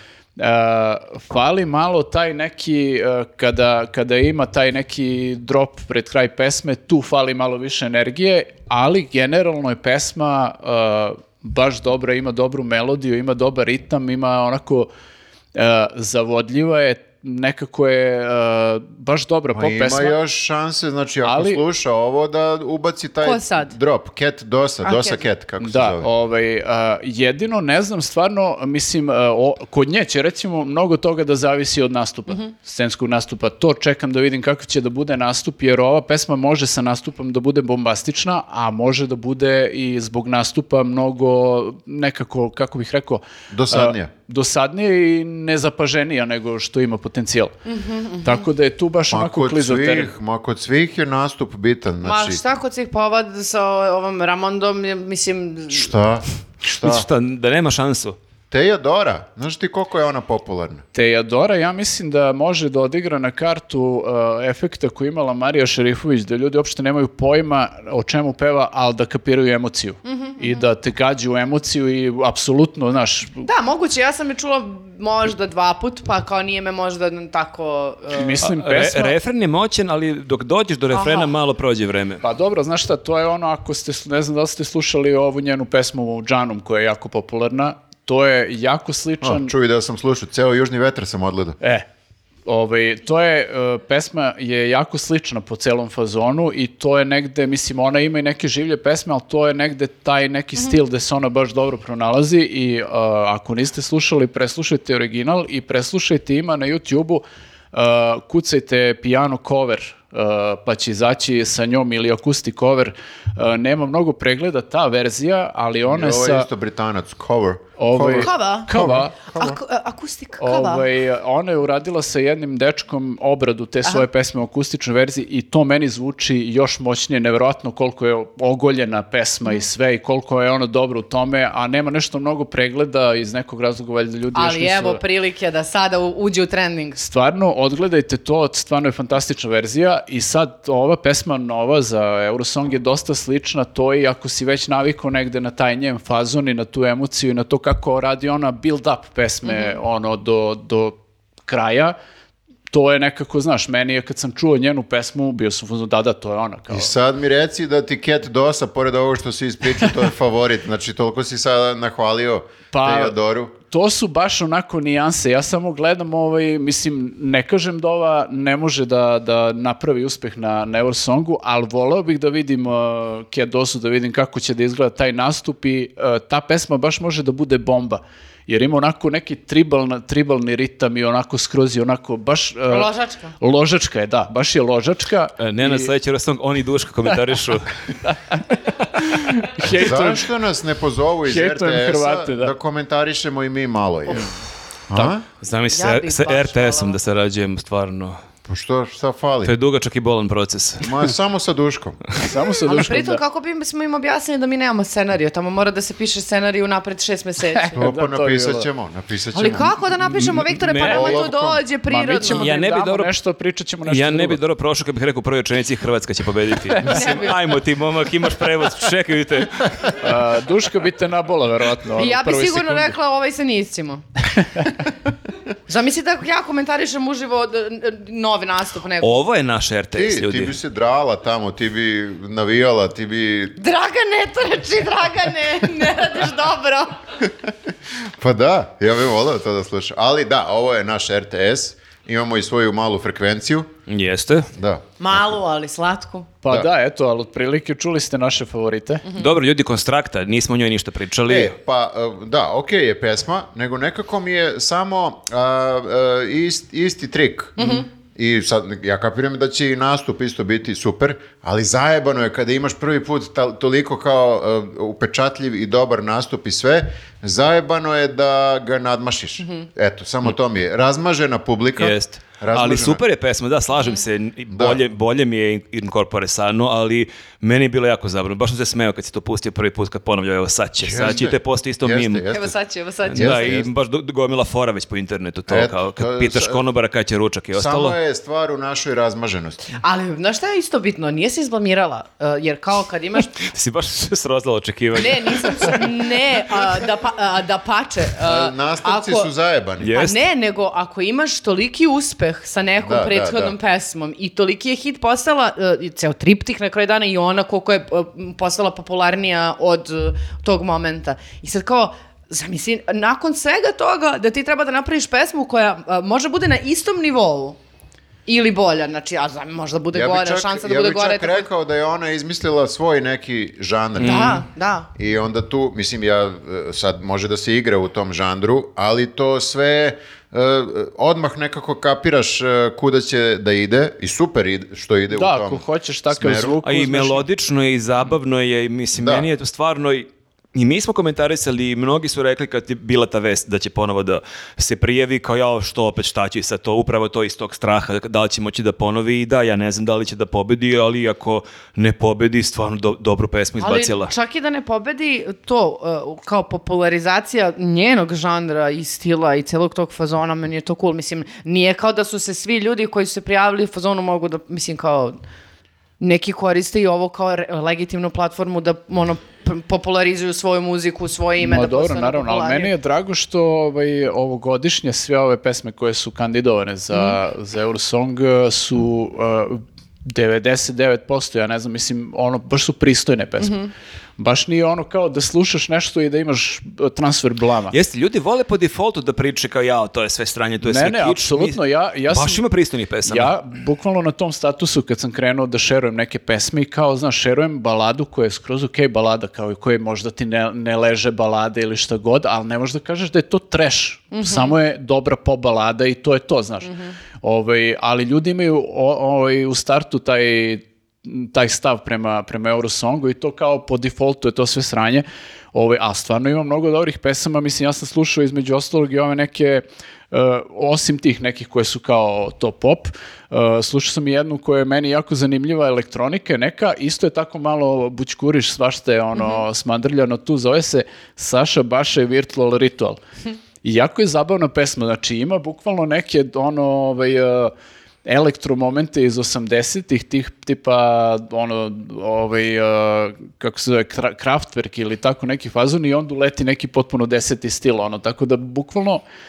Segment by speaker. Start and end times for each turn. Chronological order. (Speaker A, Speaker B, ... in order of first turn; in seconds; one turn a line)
Speaker A: 0.4-14.9
Speaker A: 15.6-20.2
Speaker B: 19.5-26.1
Speaker A: 21.2-21.6
Speaker C: 23.2-23.8
Speaker C: 24.8-25.2
Speaker A: 25.6-47.5
Speaker B: 43.5-44.1
Speaker C: 47.7-48.5
Speaker A: 48.2-50.1
Speaker B: 49.1-52.4
Speaker C: 52.0-55.9
Speaker B: 55.7-57.1
Speaker D: 56.7-58.2
Speaker B: 58.5-60.8
Speaker A: 60.9-73.5
Speaker C: 70.0-70.6
Speaker C: 73.4-78.4
Speaker A: 78.1-79.2
Speaker D: 78.4-82.2
Speaker C: 80.9-81.3
Speaker A: 82.2-89.5
Speaker B: 89.2-91.6
Speaker A: 92.5-116.5
Speaker B: 115.9-119.6
Speaker A: 117.8-119.1
Speaker C: 118.2-118.7
Speaker C: 119.2-120.8
Speaker A: 120.4-135.0
Speaker C: 134.3-137.0
Speaker A: 137.0-151.9
Speaker C: 149.4-149.8
Speaker A: 152.7-156.9
Speaker B: 156.7-163.5
Speaker A: 162.7-185.9
Speaker C: 182.7-183.4
Speaker D: 185.4-187.7
Speaker A: 188.0-190.3
Speaker B: 189.7-194.3
Speaker A: 191.3-192.5
Speaker B: 194.9-195.2
Speaker D: 195.4-198.2
Speaker C: 195.7-197.0
Speaker B: 198.5-199.5
Speaker D: 199.4-200.9
Speaker B: 200.8-202.0
Speaker A: 202.2-203.2
Speaker C: 202.6-207.8
Speaker A: 207.6-208.7
Speaker B: 207.8-209.8
Speaker C: 209.3-212.6
Speaker A: 210.0-211.2
Speaker D: 210.7-211.0
Speaker B: 210.8-211.6
Speaker A: 211.9-214.4
Speaker D: 212.3-213.1
Speaker D: 213.8-219.9
Speaker A: 216.8-217.1
Speaker C: 216.9-217.4
Speaker A: 220.0-222.9
Speaker C: 222.0-224.0
Speaker C: 225.7-229.2
Speaker D: 229.0-230.6
Speaker B: 229.9-233.6
Speaker C: 233.6-237.0
Speaker B: 238.1-243.7
Speaker D: 243.9-244.5
Speaker B: 244.5-244.8
Speaker C: 245.0-246.3
Speaker A: 246.4-249.1
Speaker D: 249.1-251.5
Speaker B: 251.3-273.0
Speaker C: 257.6-257.9
Speaker D: 271.8-282.3
Speaker B: 274.5-274.8
Speaker B: 280.8-282.6
Speaker C: 282.3-283.5
Speaker D: 283.1-288.0
Speaker B: 283.2-283.7
Speaker B: 285.5-286.6
Speaker B: 287.5-289.6
Speaker C: 289.8-293.4
Speaker D: 293.4-295.9
Speaker C: 294.9-299.3
Speaker B: 298.2-300.0
Speaker D: 299.8-300.2
Speaker C: 299.9-317.6
Speaker B: 302.8-303.6
Speaker C: 318.3-321.5
Speaker B: 319.9-324.4
Speaker D: 324.0-324.4
Speaker C: 324.0-324.9
Speaker B: 325.0-336.6
Speaker A: 335.1-337.3
Speaker D: 336.6-354.1
Speaker B: 338.9-339.3
Speaker C: 353.6-365.2
Speaker C: 366.0-372.7
Speaker A: 371.4-387.8
Speaker C: 376.9-377.2
Speaker D: 387.7-393.4
Speaker A: 390.6-392.4
Speaker A: 393.1-433.0
Speaker C: 404.1-404.6
Speaker C: 429.2-429.4
Speaker A: 433.6-437.5
Speaker A: 438.1-449.0